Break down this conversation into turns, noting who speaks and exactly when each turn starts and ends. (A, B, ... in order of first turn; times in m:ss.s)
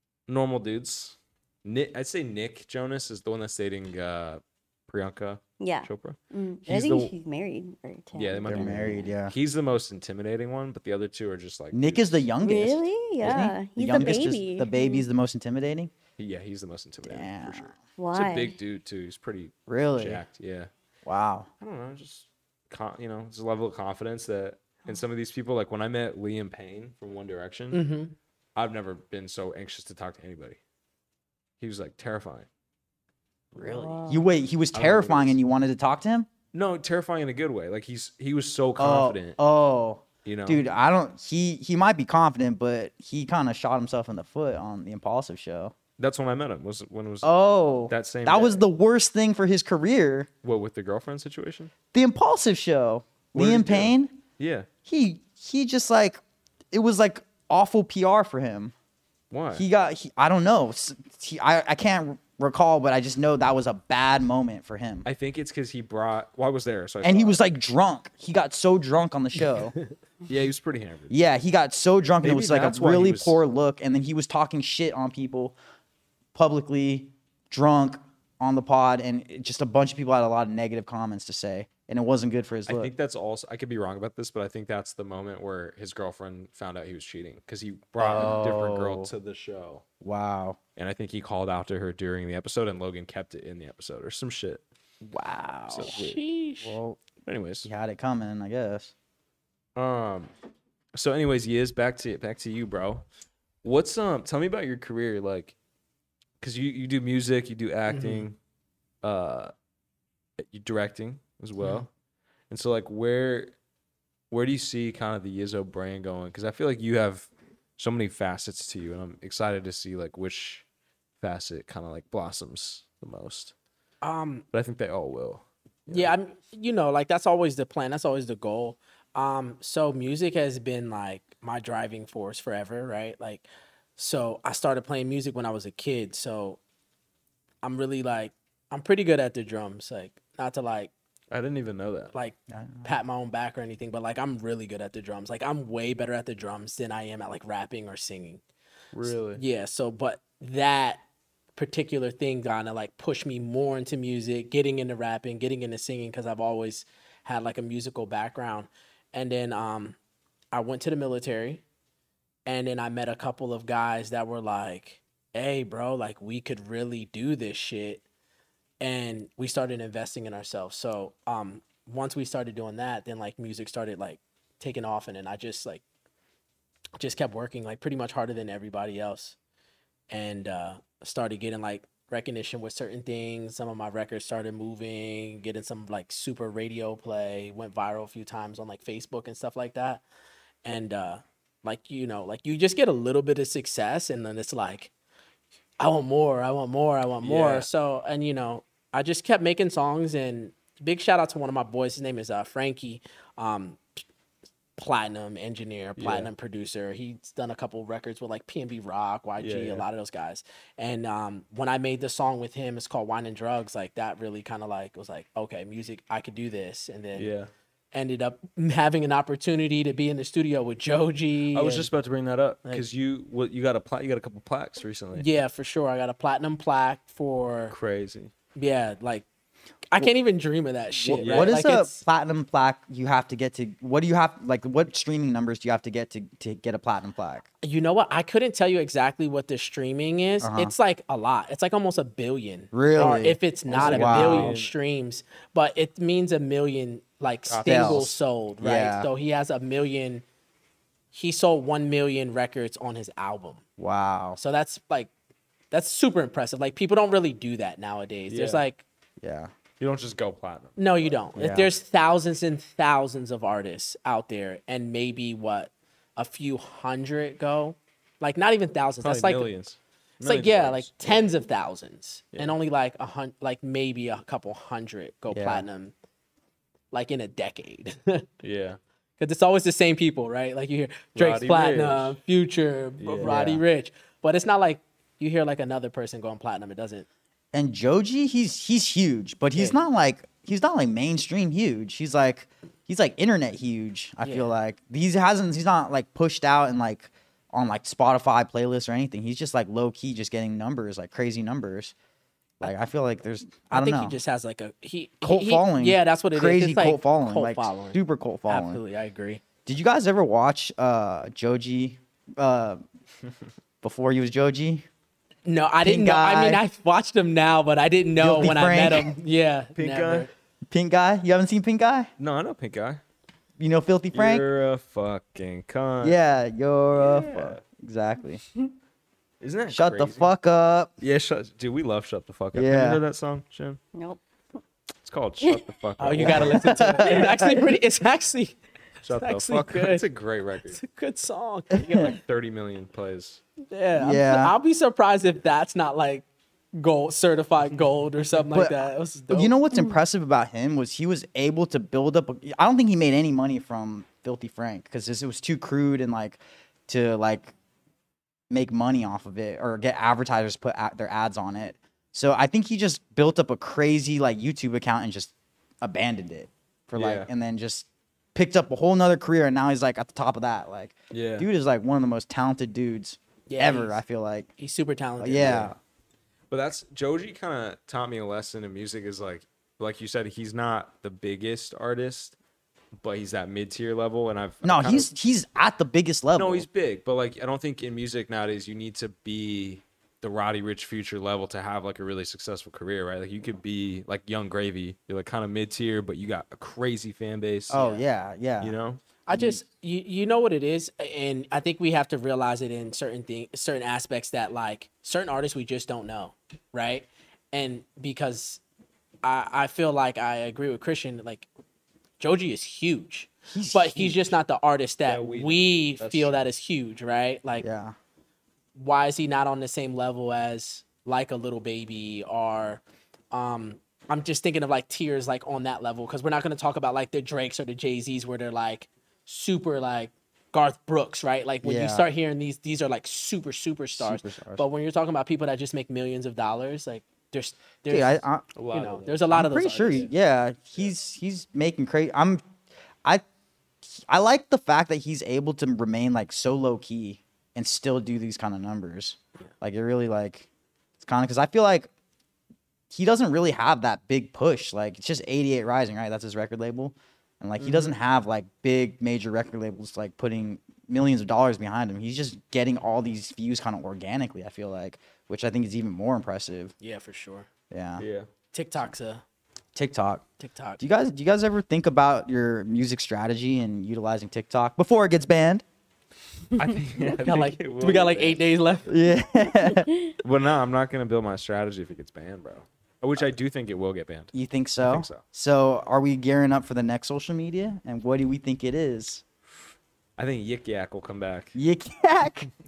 0:00.3-0:07.1 A
0:05.6-0:09.1 B
0:08.1-0:12.3 A
0:08.5-0:09.3 C
0:11.7-0:15.9 C
0:12.4-0:15.1 B
0:16.2-0:20.7 A
0:17.0-0:17.7 C
0:18.0-0:18.6 B
0:19.7-0:20.2 C
0:21.0-0:21.5 C
0:21.6-0:27.8 A
0:27.7-0:28.1 D
0:28.6-0:30.6 A
0:31.6-0:32.5 A
0:33.5-0:36.3 C
0:33.6-0:34.3 B
0:34.7-0:35.4 A
0:36.5-0:39.4 A
0:38.8-0:45.7 C
0:40.2-0:40.6 A
0:46.0-0:47.3 A
0:47.2-0:50.3 C
0:47.9-0:48.6 A
0:50.4-0:51.7 A
0:51.9-0:54.2 C
0:53.3-0:54.7 A
0:54.8-0:56.2 C
0:56.7-0:58.7 C
0:59.3-0:59.6 A
0:59.5-1:05.1 C
1:05.0-1:07.4 A
1:07.0-1:09.7 C
1:10.3-1:11.2 A
1:11.1-1:15.6 C
1:12.2-1:13.4 A
1:16.3-1:22.9 C
1:22.7-1:29.8 A
1:28.0-1:29.1 C
1:30.0-1:30.6 C
1:30.8-1:34.6 A
1:35.0-1:36.0 C
1:35.7-1:36.2 A
1:35.8-1:36.8 D
1:36.6-1:37.0 C
1:37.2-1:37.7 A
1:37.6-1:38.9 C
1:39.8-1:40.3 A
1:40.9-1:43.0 A
1:43.6-1:45.5 A
1:46.4-1:48.4 A
1:47.9-1:48.3 D
1:49.0-1:49.5 A
1:50.4-1:51.9 A
1:51.6-1:51.8 D
1:52.5-1:53.5 A
1:54.3-2:00.6 A
2:01.2-2:03.5 A
2:04.0-2:04.4 D
2:04.5-2:06.1 A
2:05.9-2:13.4 D
2:14.0-2:16.6 D
2:17.6-2:20.9 D
2:21.3-2:22.1 A
2:22.1-2:28.4 D
2:22.5-2:22.9 C
2:28.9-2:29.4 A
2:29.1-2:31.0 D
2:31.6-2:40.0 D
2:40.5-2:41.6 D
2:42.4-2:48.0 D
2:48.8-2:55.8 D
2:57.0-2:59.4 D
3:00.1-3:10.0 D
3:10.6-3:14.9 D
3:15.8-3:23.8 D
3:17.2-3:17.7 A
3:24.8-3:37.3 D
3:26.0-3:26.3 A
3:29.4-3:29.8 A
3:37.1-3:37.5 A
3:37.9-3:41.9 D
3:41.5-3:45.2 A
3:45.1-3:47.7 D
3:47.7-3:48.3 A
3:48.6-3:49.2 D
3:49.9-3:52.0 D
3:51.0-3:57.4 C
3:51.2-3:51.5 A
3:57.6-4:10.2 D
4:00.4-4:00.7 C
4:02.7-4:04.5 C
4:03.7-4:04.7 A
4:07.5-4:08.1 A
4:07.6-4:09.1 C
4:11.1-4:13.6 D
4:13.8-4:14.4 C
4:14.4-4:15.1 D
4:15.7-4:18.8 D
4:18.3-4:18.6 A
4:19.2-4:19.5 C
4:19.8-4:21.1 A
4:20.8-4:29.5 D
4:21.4-4:21.7 C
4:29.0-4:31.2 A
4:30.2-4:35.9 D
4:35.3-4:35.6 C
4:36.9-4:38.3 D
4:38.4-4:38.8 A
4:39.2-4:47.0 D
4:41.2-4:42.2 A
4:43.0-4:43.4 A
4:43.2-4:43.6 C
4:47.5-5:01.9 C
4:54.2-4:54.5 D
5:02.6-5:04.2 C
5:03.7-5:09.4 D
5:05.2-5:08.8 C
5:09.6-5:12.8 C
5:13.8-5:14.8 C
5:15.4-5:20.3 D
5:15.8-5:16.6 C
5:18.2-5:19.1 C
5:19.8-5:20.3 A
5:20.7-5:22.1 C
5:22.2-5:23.0 A
5:23.6-5:24.4 C
5:24.1-5:26.2 A
5:26.0-5:28.4 C
5:26.9-5:27.6 A
5:29.4-5:30.3 A
5:29.7-5:30.9 C
5:31.0-5:33.8 A
5:32.5-5:33.0 C
5:33.9-5:34.2 B
5:35.0-5:37.1 A
5:36.0-5:38.6 D
5:36.2-5:37.7 C
5:39.0-5:40.8 A
5:39.1-5:40.0 D
5:40.7-5:42.2 D
5:42.0-5:43.4 A
5:43.7-5:49.5 D
5:43.9-5:44.5 C
5:48.5-5:57.5 C
5:58.5-6:14.5 C
6:06.9-6:07.3 A
6:11.1-6:11.5 A
6:13.5-6:14.0 D
6:14.6-6:15.7 D
6:15.2-6:15.8 C
6:16.5-6:22.4 A
6:23.0-6:25.1 A
6:24.6-6:26.7 C
6:26.4-6:37.8 A
6:37.7-6:38.7 C
6:37.7-6:38.0 D
6:38.6-6:39.0 A
6:39.2-6:48.6 D
6:39.3-6:39.6 C
6:49.2-6:51.5 D
6:52.2-6:57.6 D
6:53.5-6:54.4 C
6:55.0-6:56.3 A
6:57.6-6:57.9 C
6:58.7-7:20.1 D
7:11.6-7:12.0 C
7:13.9-7:14.7 C
7:17.9-7:18.4 C
7:18.5-7:19.2 A
7:19.3-7:22.4 C
7:23.8-7:30.5 C
7:31.0-7:31.9 C
7:32.9-7:46.7 C
7:37.6-7:37.9 D
7:46.8-7:47.5 D
7:47.7-7:48.0 C
7:48.0-7:48.3 A
7:48.5-7:49.2 D
7:49.7-7:50.2 C
7:50.4-7:50.8 D
7:50.8-7:55.6 C
7:56.6-7:58.4 A
7:57.2-7:59.0 D
7:58.8-7:59.9 C
7:59.6-8:00.1 B
8:00.2-8:05.2 A
8:04.3-8:09.2 C
8:10.2-8:11.6 A
8:11.5-8:12.5 C